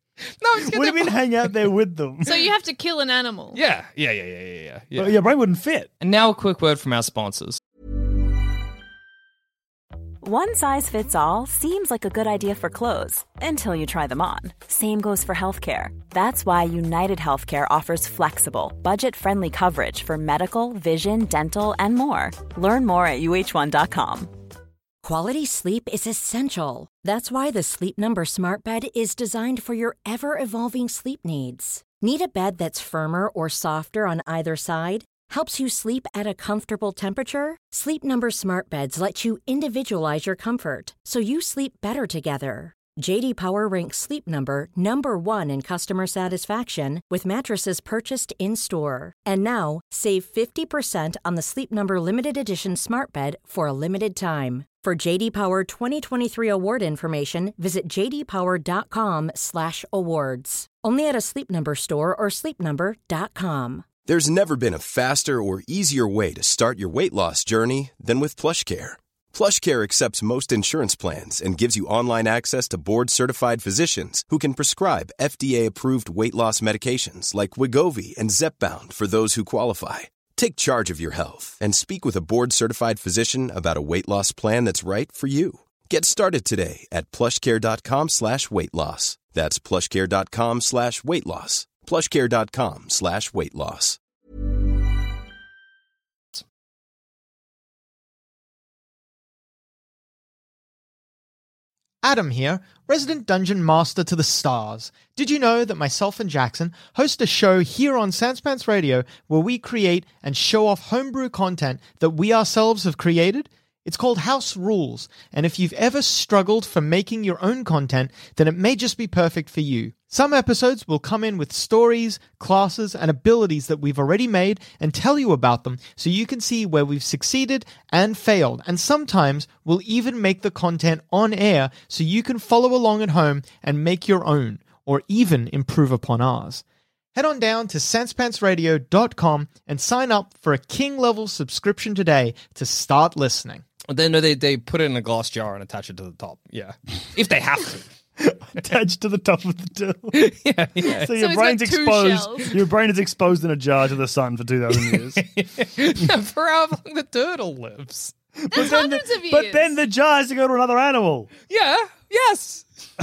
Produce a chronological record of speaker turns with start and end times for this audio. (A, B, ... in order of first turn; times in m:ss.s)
0:00.4-0:01.3 A
0:00.6-0:02.5 B
0:02.2-0:03.6 C
0:03.5-0:05.2 A
0:05.0-0:05.9 B
0:06.0-0:07.6 A
0:10.2-0:24.3 D
0:25.0-1:03.9 E
1:04.0-1:34.0 F
1:42.0-2:16.6 G
2:17.1-2:23.6 G
2:23.9-2:27.9 A
2:28.2-2:30.3 B
2:30.1-2:31.1 A
2:30.8-2:32.5 C
2:30.8-2:35.2 B
2:34.7-2:38.1 A
2:38.4-2:41.3 B
2:38.5-2:39.7 C
2:41.5-2:42.6 A